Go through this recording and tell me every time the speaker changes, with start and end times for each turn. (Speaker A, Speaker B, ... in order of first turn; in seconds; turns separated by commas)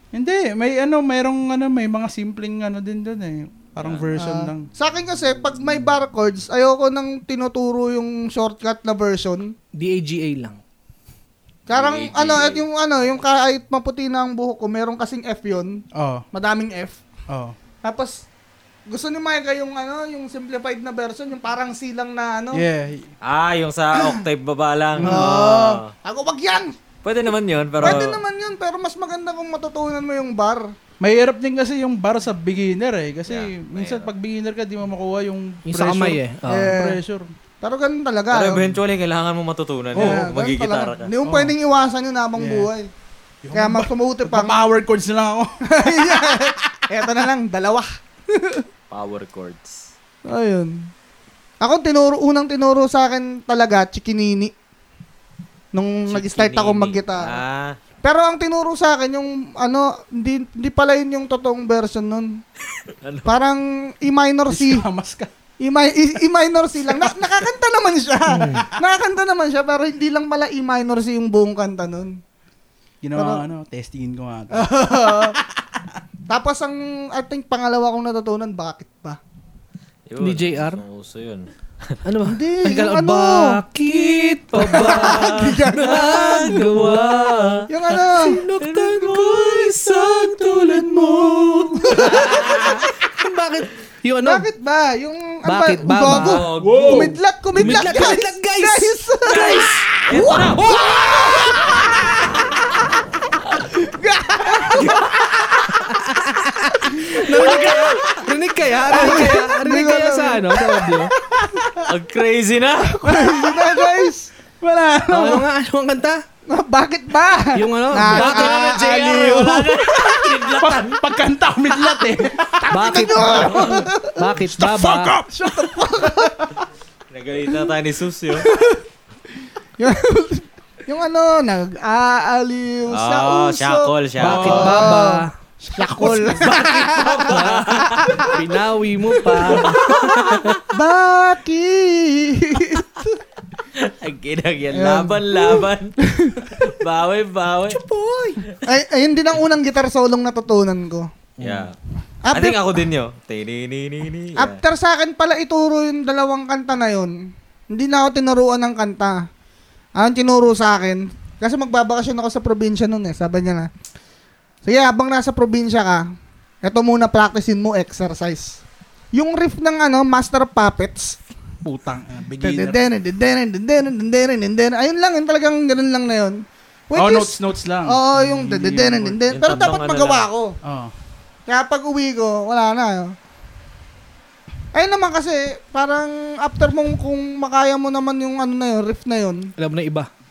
Speaker A: 0.1-4.7, Speaker B: 3.8-4.1, Speaker C: 4.2-9.5, Speaker D: 9.7-10.6, Speaker C: 11.7-17.0, Speaker B: 11.7-12.6, Speaker A: 15.9-16.2, Speaker A: 17.3-17.6, Speaker C: 17.8-18.2, Speaker C: 18.9-22.6, Speaker A: 22.5-23.1, Speaker B: 23.2-25.9, Speaker A: 25.0-25.7, Speaker C: 25.0-26.7, Speaker B: 27.0-28.2, Speaker C: 27.8-30.7, Speaker A: 31.0-37.3, Speaker B: 33.2-34.1, Speaker D: 35.7-36.7, Speaker C: 36.5-37.0, Speaker C: 37.6-38.8, Speaker B: 38.3-41.1, Speaker C: 39.9-42.9, Speaker A: 39.9-40.2, Speaker A: 41.2-41.5, Speaker A: 42.4-42.7, Speaker A: 43.4-45.5, Speaker C: 43.5-44.6, Speaker C: 45.7-48.6, Speaker B: 48.9-49.9, Speaker C: 50.3-50.7, Speaker C: 51.6-54.5, Speaker C: 55.7-57.4, Speaker B: 56.1-57.8, Speaker C: 58.0-62.4, Speaker B: 63.0-63.3, Speaker C: 63.2-64.8, Speaker A: 64.5-65.3, Speaker C: 65.6-72.2, Speaker D: 68.3-68.7, Speaker A: 73.0-75.4, Speaker C: 73.2-73.4, Speaker C: 74.5-75.4, Speaker C: 76.3-79.2, Speaker B: 80.1-82.0, Speaker D: 80.2-80.8, Speaker D: 82.0-91.2, Speaker C: 82.2-83.6, Speaker B: 84.1-87.7, Speaker C: 84.6-86.6, Speaker C: 87.7-88.4, Speaker B: 88.6-92.8, Speaker A: 90.7-92.0, Speaker C: 91.8-92.4, Speaker D: 91.9-94.5, Speaker C: 94.2-102.8, Speaker D: 95.5-96.4, Speaker B: 96.1-97.1, Speaker A: 96.6-97.2, Speaker D: 97.5-99.0, Speaker B: 99.2-101.6, Speaker C: 103.6-105.7, Speaker D: 105.7-111.1, Speaker C: 106.8-107.9, Speaker B: 107.3-108.1, Speaker C: 108.8-111.7, Speaker B: 111.8-113.2, Speaker C: 112.9-114.3, Speaker A: 113.1-113.8, Speaker A: 114.6-115.5, Speaker D: 115.1-116.2, Speaker C: 116.5-120.1, Speaker D: 117.5-118.8, Speaker B: 118.1-121.1, Speaker A: 120.6-122.7, Speaker C: 121.8-124.3, Speaker D: 122.7-125.2, Speaker A: 124.5-126.3, Speaker C: 125.4-126.5, Speaker B: 127.1-128.5, Speaker C: 128.3-128.8, Speaker C: 129.8-138.4, Speaker B: 132.9-134.8, Speaker A: 134.2-134.9, Speaker D: 134.2-135.3, Speaker A: 135.6-136.4, Speaker B: 136.4-138.4, Speaker D: 137.0-140.5, Speaker B: 139.6-140.6, Speaker C: 140.7-143.2, Speaker B: 143.8-145.9, Speaker C: 144.7-146.7, Speaker B: 146.5-147.8, Speaker C: 147.9-151.1, Speaker D: 151.4-151.7, Speaker B: 151.4-151.7, Speaker C: 152.2-152.7, Speaker B: 152.3-154.6, Speaker C: 154.3-157.1, Speaker C: 157.7-159.2, Speaker C: 160.0-163.7, Speaker C: 164.6-166.1, Speaker C: 166.6-168.6, Speaker C: 169.1-171.2, Speaker A: 171.6-172.8, Speaker C: 172.4-180.6, Speaker A: 176.9-179.2, Speaker B: 179.3-180.2, Speaker A: 180.6-180.9, Speaker C: 181.5-183.1, Speaker C: 184.7-189.5, Speaker D: 189.6-190.1